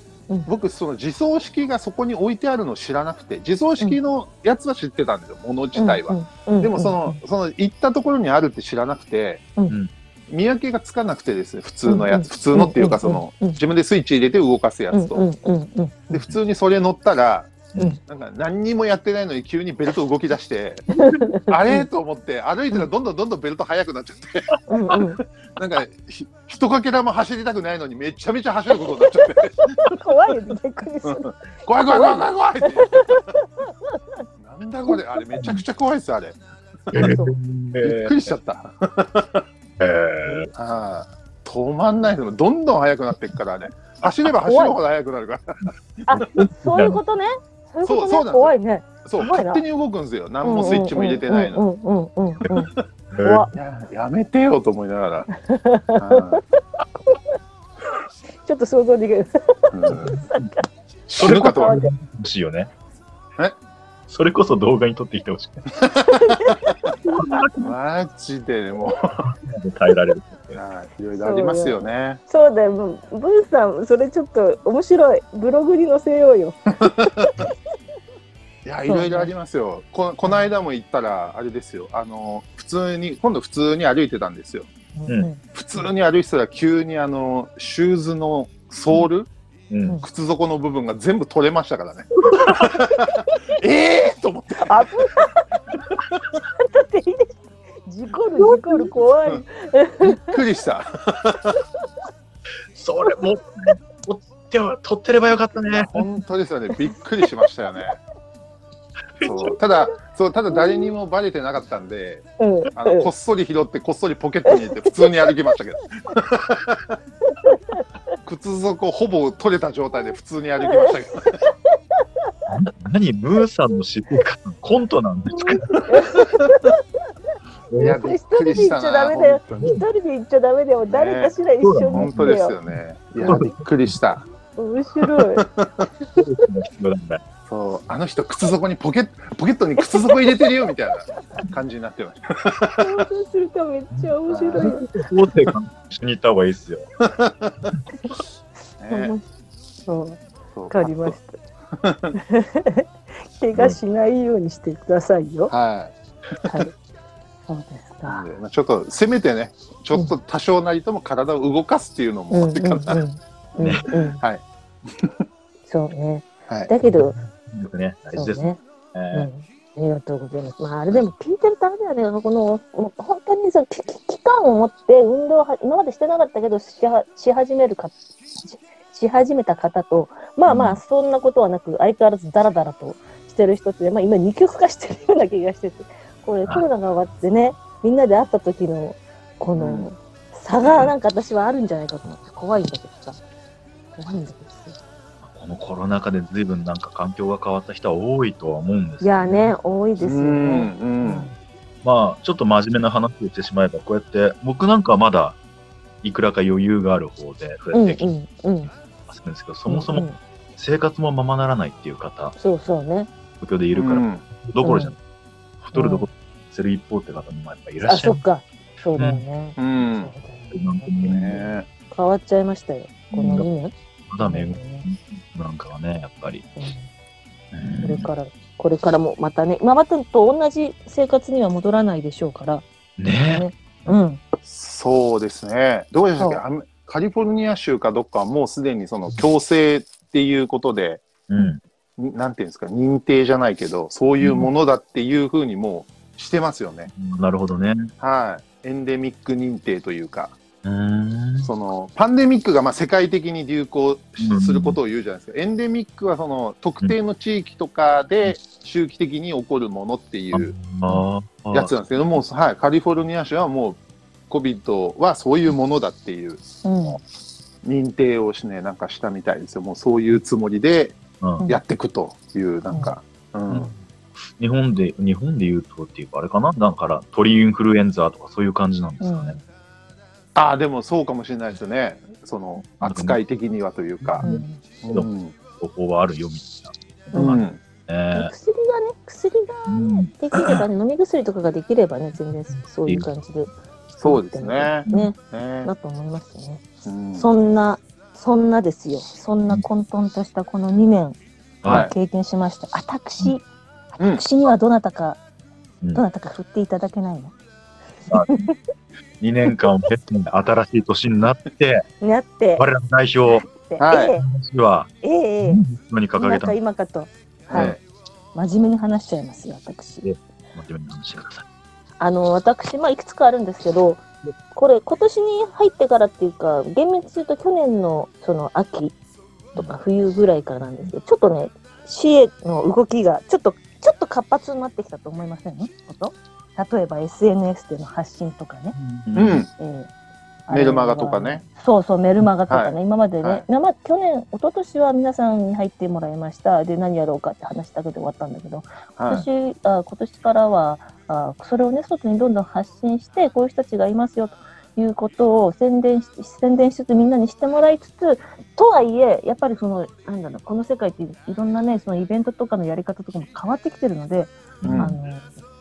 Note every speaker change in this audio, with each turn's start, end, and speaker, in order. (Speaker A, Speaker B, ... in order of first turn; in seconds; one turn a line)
Speaker A: 0.5-9.5
Speaker B: 5.7-7.2
Speaker A: 10.3-15.2
Speaker B: 11.9-13.6
Speaker B: 14.9-16.2
Speaker A: 16.1-20.9
Speaker B: 20.9-21.9
Speaker A: 21.4-25.0
Speaker B: 24.7-25.2
Speaker A: 25.6-29.9
Speaker B: 28.8-31.3
Speaker A: 31.1-33.3
Speaker B: 31.9-33.5
Speaker A: 34.4-37.1
Speaker C: 35.4-35.6
Speaker B: 36.9-37.3
Speaker C: 36.9-38.3
Speaker A: 37.8-39.4
Speaker C: 39.8-40.5
Speaker A: 40.5-45.7
Speaker B: 44.5-44.7
Speaker B: 46.1-49.6
Speaker C: 46.1-47.0
Speaker A: 47.9-51.6
Speaker B: 50.4-52.7
Speaker C: 53.1-53.5
Speaker B: 53.2-53.5
Speaker A: 53.5-55.3
Speaker B: 55.4-56.4
Speaker A: 56.0-56.4
Speaker B: 58.4-60.7
Speaker A: 59.7-60.2
Speaker C: 59.9-60.5
Speaker A: 61.1-61.8
Speaker C: 61.2-62.7
Speaker B: 61.2-61.9
Speaker C: 64.1-65.7
Speaker A: 65.8-66.2
Speaker B: 66.1-67.3
Speaker C: 67.2-67.5
Speaker A: 67.6-69.3
Speaker C: 69.3-70.6
Speaker A: 70.5-72.2
Speaker B: 71.2-77.5
Speaker A: 76.8-77.3
Speaker A: 78.6-84.7
Speaker B: 78.9-79.3
Speaker B: 84.9-85.4
Speaker A: 85.5-89.3
Speaker C: 89.7-89.9
Speaker A: 90.0-95.1
Speaker C: 92.3-92.7
Speaker B: 93.0-93.4
Speaker B: 94.6-95.5
Speaker B: 96.5-100.4
Speaker C: 98.4-98.8
Speaker A: 100.0-101.6
Speaker C: 102.7-105.9
Speaker A: 105.7-108.0
Speaker C: 109.2-109.5
Speaker A: 109.2-117.0
Speaker B: 109.4-109.9
Speaker B: 110.5-110.9
Speaker B: 112.4-113.1
Speaker B: 114.5-115.2
Speaker B: 117.4-117.8
Speaker A: 118.2-121.4
Speaker B: 120.7-121.5
Speaker C: 122.5-125.9
Speaker B: 125.3-126.8
Speaker C: 127.7-128.0
Speaker A: 127.8-129.7
Speaker B: 127.8-132.6
Speaker A: 130.9-131.4
Speaker C: 131.6-132.4
Speaker A: 131.9-134.2
Speaker B: 133.2-133.6
Speaker C: 133.2-133.6
Speaker B: 134.6-135.5
Speaker A: 135.4-135.7
Speaker C: 136.2-137.2
Speaker A: 137.5-143.1
Speaker B: 139.8-140.4
Speaker B: 142.8-144.9
Speaker C: 143.9-146.9
Speaker A: 144.3-144.8
Speaker A: 147.0-147.6
Speaker A: 148.8-149.1
Speaker B: 148.9-149.2
Speaker B: 149.9-151.4
Speaker A: 150.5-151.2
Speaker A: 151.8-152.1
Speaker B: 152.2-155.5
Speaker A: 155.5-156.5
Speaker B: 156.4-156.7
Speaker B: 157.5-158.2
Speaker A: 158.1-163.0
Speaker B: 162.3-164.2
Speaker C: 163.6-163.9
Speaker B: 165.7-167.2
Speaker C: 166.9-169.3
Speaker B: 168.1-168.6
Speaker B: 169.1-193.2
Speaker C: 180.5-180.8
Speaker A: 189.6-189.9
Speaker B: 193.9-194.8
Speaker C: 195.2-199.5
Speaker B: 199.0-201.3
Speaker A: 200.0-201.3
Speaker C: 201.8-205.4
Speaker C: 206.0-208.1
Speaker B: 207.7-208.7
Speaker C: 209.1-212.4
Speaker B: 209.7-210.2
Speaker B: 212.4-213.1
Speaker C: 213.4-214.9
Speaker A: 213.7-214.3
Speaker B: 214.6-214.9
Speaker C: 215.6-218.2
Speaker B: 215.7-216.1
Speaker B: 217.8-224.9
Speaker C: 219.0-219.2
Speaker A: 219.6-220.1
Speaker C: 220.5-221.4
Speaker A: 221.1-221.7
Speaker C: 223.1-223.4
Speaker C: 224.1-226.4
Speaker B: 226.6-226.9
Speaker C: 227.5-228.1
Speaker B: 227.8-232.6
Speaker C: 233.0-233.4
Speaker B: 233.3-234.2
Speaker A: 234.4-241.1
Speaker C: 241.3-241.6
Speaker A: 242.0-246.9
Speaker C: 244.2-244.5
Speaker C: 246.9-247.9
Speaker A: 248.0-250.4
Speaker C: 250.6-251.5
Speaker A: 251.4-260.6
Speaker C: 254.2-254.8
Speaker C: 260.3-261.7
Speaker A: 261.5-266.4
Speaker B: 266.6-267.0
Speaker A: 267.6-273.7
Speaker B: 272.7-272.9
Speaker C: 273.5-273.8
Speaker C: 274.4-279.4
Speaker B: 279.0-279.4
Speaker A: 280.4-284.3
Speaker C: 282.8-283.2
Speaker C: 284.0-288.3
Speaker B: 284.2-284.6
Speaker A: 284.8-285.4
Speaker B: 287.1-287.4
Speaker A: 287.1-287.6
Speaker B: 288.1-296.6
Speaker C: 289.7-290.6
Speaker C: 292.7-293.1
Speaker A: 294.0-295.7
Speaker A: 296.9-297.3
Speaker B: 297.1-305.2
Speaker C: 301.6-301.9
Speaker A: 301.7-301.9
Speaker B: 305.9-307.3
Speaker C: 308.1-308.5
Speaker B: 308.1-308.6
Speaker C: 309.2-311.9
Speaker B: 309.5-309.9
Speaker B: 312.0-312.6
Speaker C: 312.6-313.4
Speaker B: 313.5-314.3
Speaker A: 313.8-314.1
Speaker C: 314.2-314.9
Speaker B: 315.0-315.6
Speaker C: 315.4-316.6
Speaker B: 316.2-317.8
Speaker A: 317.5-317.8
Speaker C: 317.5-317.8
Speaker B: 318.4-320.1
Speaker C: 320.0-321.4
Speaker B: 322.0-328.9
Speaker B: 329.5-338.8
Speaker C: 338.8-339.5
Speaker A: 339.1-339.5
Speaker B: 339.6-339.9
Speaker B: 340.5-365.3
Speaker A: 340.5-341.4
Speaker A: 342.5-343.4
Speaker A: 349.0-349.2
Speaker C: 364.6-365.0
Speaker A: 364.6-364.9